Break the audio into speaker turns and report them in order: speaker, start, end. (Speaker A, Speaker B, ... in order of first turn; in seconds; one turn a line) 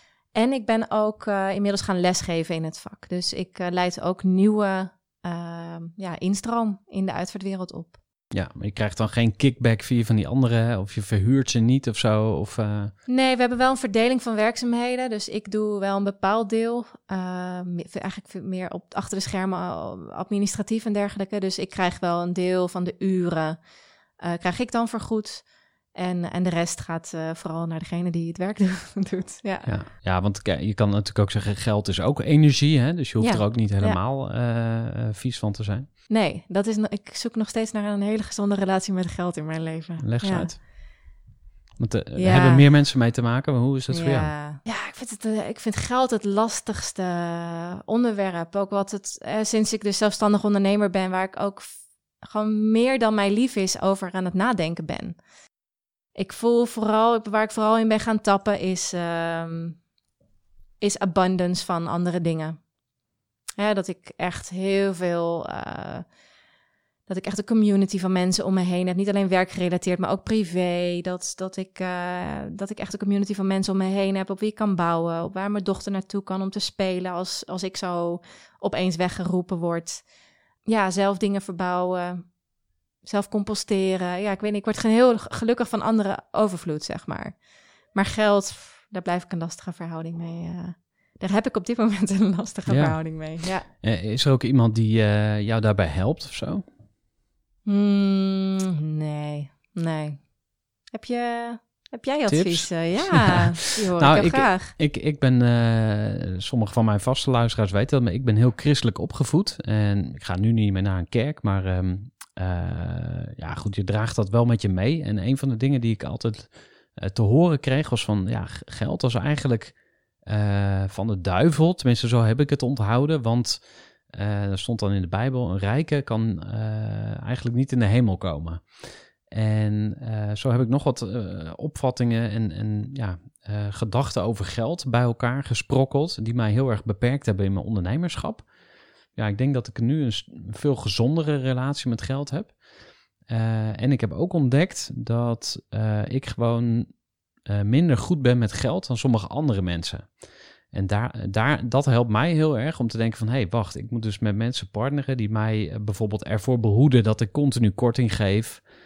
Speaker A: 0.3-8.0
Speaker B: 8.3-12.9
Speaker A: 13.1-23.6
Speaker A: 24.2-29.7
Speaker B: 29.7-35.9
Speaker A: 33.2-34.0
Speaker A: 36.1-40.6
Speaker B: 40.0-40.6
Speaker B: 41.8-44.3
Speaker A: 42.2-42.7
Speaker A: 43.9-55.2
Speaker A: 56.1-59.8
Speaker A: 60.8-62.6
Speaker A: 63.6-66.0
Speaker A: 67.1-80.0
Speaker A: 80.7-82.3
Speaker A: 83.0-87.4
Speaker A: 87.9-93.7
Speaker B: 92.7-93.0
Speaker B: 93.6-96.6
Speaker A: 97.7-100.2
Speaker A: 100.9-104.7
Speaker B: 102.3-138.5
Speaker B: 139.2-142.6
Speaker B: 143.3-146.9
Speaker B: 147.4-150.1
Speaker B: 150.7-158.7